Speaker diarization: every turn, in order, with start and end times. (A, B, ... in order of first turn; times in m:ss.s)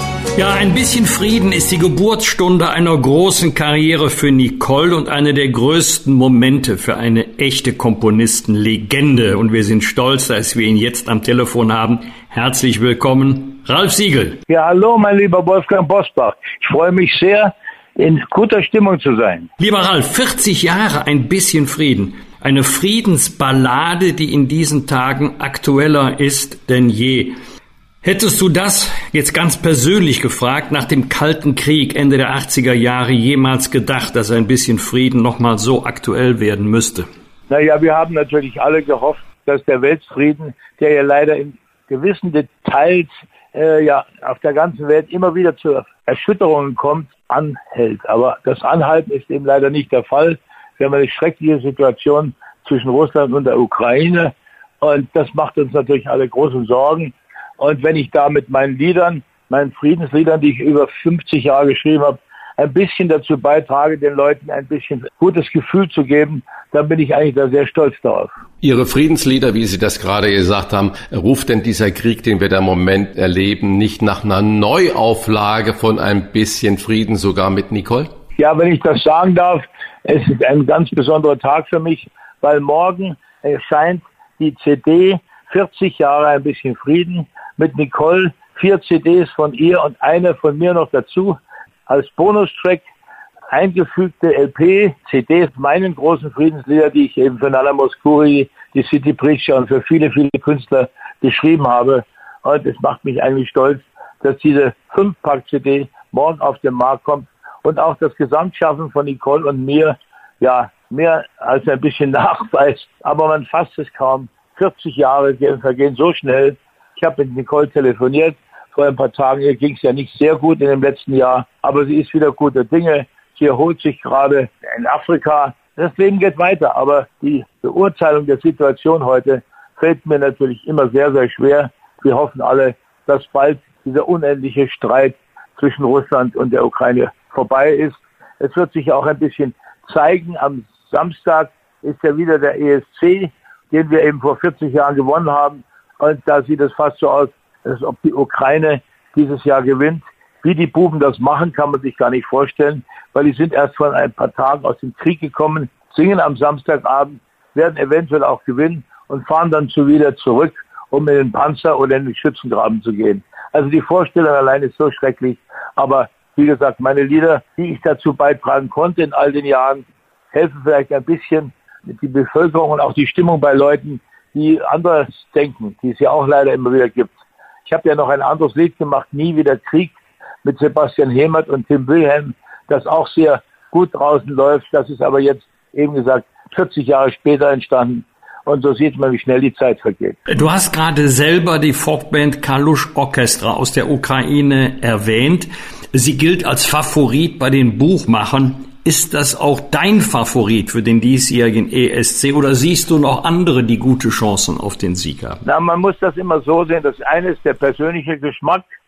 0:00.3-0:14.4 A
0:14.5-0:19.5 B
0:19.6-0:27.4 A
0:28.0-0:37.1 A
0:37.5-1:08.3 B
1:08.6-1:18.1 C
1:18.4-1:32.8 B
1:33.5-2:57.1 B
2:57.6-3:10.2 B
3:10.3-3:25.4 A
3:25.4-3:28.7 B